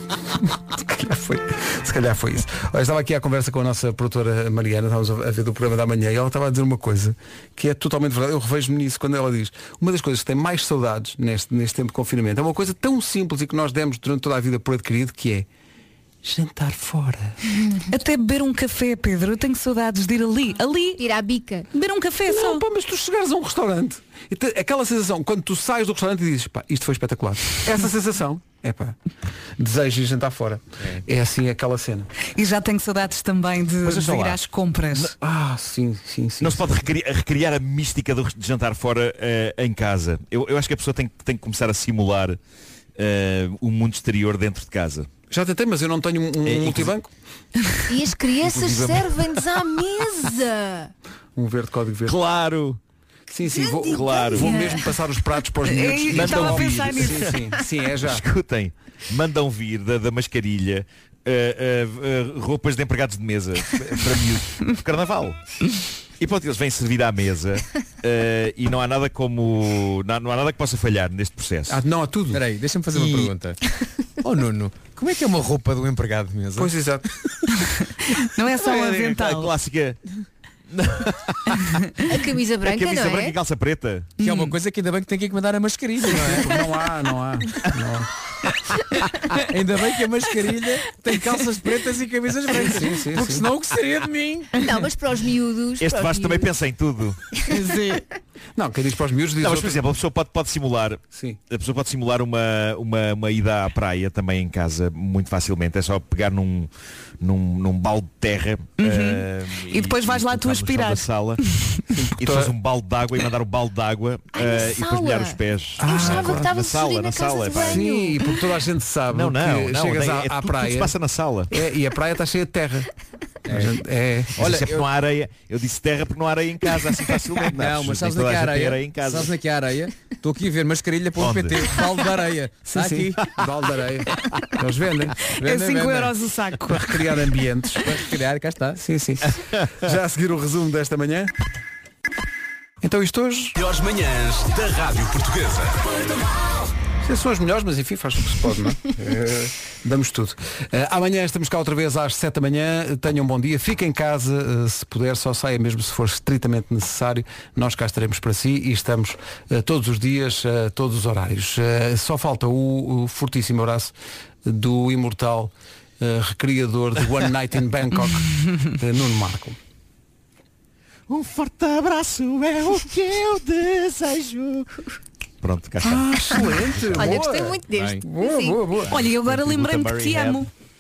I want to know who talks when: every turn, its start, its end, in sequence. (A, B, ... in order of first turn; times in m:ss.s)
0:00.3-0:15.5 A
0:16.2-0:17.4 A
0:17.9-0:21.0 B
0:21.0-0:21.7 C
0:21.7-0:22.6 B
0:22.3-0:29.0 A
0:29.6-0:32.1 A
0:32.4-0:35.1 B
0:33.9-0:34.2 A
0:33.9-0:34.4 D
0:35.0-0:36.8 A
0:36.4-0:42.4 D
0:43.0-0:45.1 D
0:45.3-0:47.1 A
0:46.4-0:46.9 D
0:47.9-0:50.9 C
0:48.4-0:49.4 D
0:51.4-0:52.2 A
0:52.0-0:52.8 D
0:53.3-0:58.2 A
0:53.5-0:54.6 C
0:53.8-0:54.5 D
0:54.4-0:54.8 B
0:55.6-0:57.3 B
0:56.1-0:57.3 D
0:57.9-1:05.4 D
1:06.2-1:11.8 D
1:11.7-1:12.4 A
1:12.3-1:13.6 E
1:12.9-1:13.3 D
1:14.2-1:16.7 E
1:16.6-1:17.1 A
1:17.5-1:19.5 B
1:18.6-1:20.0 D
1:20.7-1:21.6 D
1:21.6-1:21.9 B
1:22.1-1:23.4 C
1:22.6-1:24.1 D
1:24.2-1:26.5 E
1:24.2-1:24.5 B
1:26.3-1:28.1 A
1:29.4-1:34.7 E
1:32.5-1:33.5 A
1:34.6-1:36.5 C
1:35.8-1:37.2 D
1:37.5-1:38.0 B
1:38.6-1:39.9 A
1:39.4-1:46.7 D
1:41.1-1:41.4 A
1:47.2-1:51.4 D
1:48.8-1:51.1 B
1:52.0-1:52.5 A
1:52.2-1:57.9 D
1:54.3-1:58.4 C
1:55.8-1:56.5 A
1:57.5-2:01.0 A
1:59.1-2:01.5 D
2:01.5-2:02.9 A
2:03.5-2:03.8 E
2:03.5-2:04.4 A
2:04.4-2:04.9 E
2:04.4-2:09.3 D
2:07.4-2:13.3 E
2:11.2-2:11.6 D
2:12.7-2:15.2 A
2:15.3-2:16.2 E
2:15.4-2:17.0 B
2:16.7-2:17.9 A
2:17.8-2:18.8 E
2:18.8-2:21.3 A
2:22.8-2:23.5 A
2:23.6-2:25.8 F
2:27.0-2:49.6 A
2:51.1-2:54.8 D
2:55.4-2:56.1 D
2:55.8-2:58.9 A
2:57.0-2:58.6 C
2:57.8-2:58.0 E
2:58.9-3:00.5 B
2:59.0-3:00.5 D